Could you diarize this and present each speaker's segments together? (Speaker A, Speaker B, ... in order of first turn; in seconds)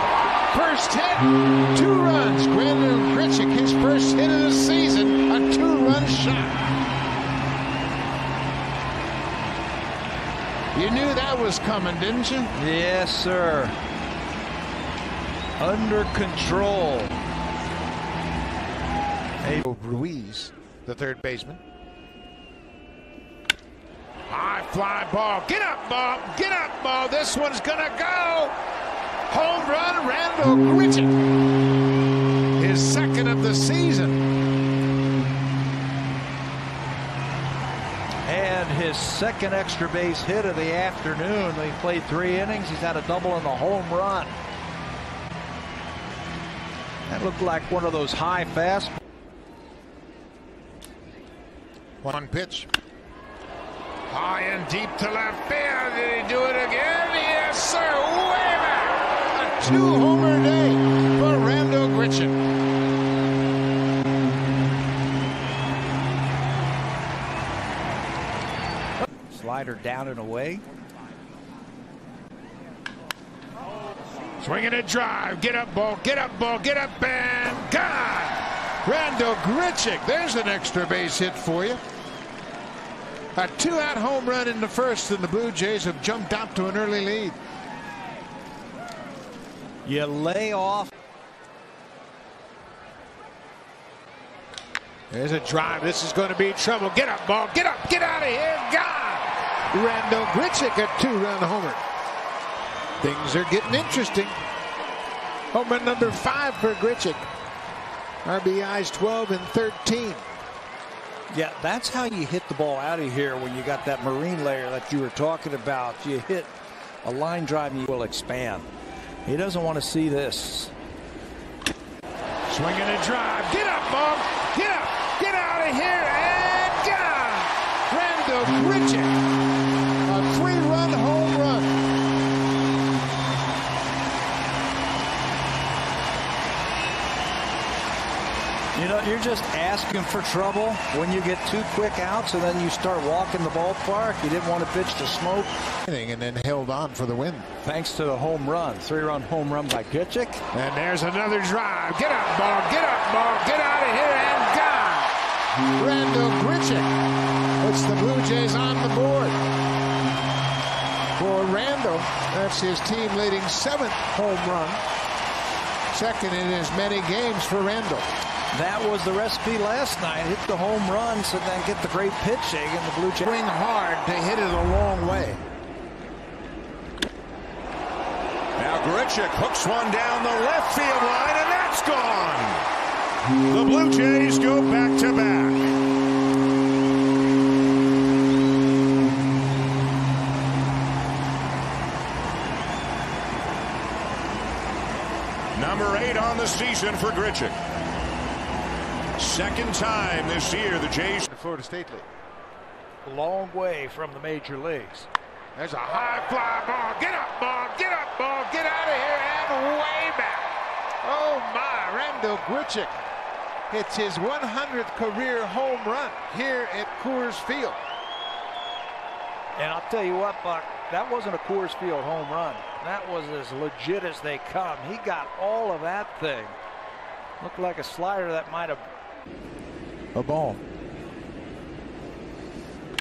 Speaker A: 0.5-6.7, 10.7-12.5, 19.6-21.6, 24.3-28.6, 29.3-31.1, 32.5-34.2, 52.0-52.7, 54.1-62.4, 74.4-81.8, 83.3-87.4, 95.1-101.8, 103.0-104.4, 105.5-107.2, 108.2-110.3, 122.5-129.2, 130.1-131.7, 145.8-147.5, 150.5-155.2, 155.8-156.9, 157.6-159.4, 161.2-164.8, 165.9-168.1, 173.2-175.5, 201.3-202.1, 205.6-212.9, 213.7-217.8, 230.2-230.6
Speaker B: 12.6-13.8, 15.6-17.1, 38.3-44.4, 47.1-49.0, 69.2-70.6, 89.8-90.9, 111.3-116.5, 117.0-118.7, 119.3-120.7, 138.7-145.5, 147.6-150.4, 168.5-173.3, 203.1-205.1, 219.6-226.6, 227.4-228.8
Speaker C: 178.6-182.7, 183.5-185.7, 195.5-197.6, 199.2-201.3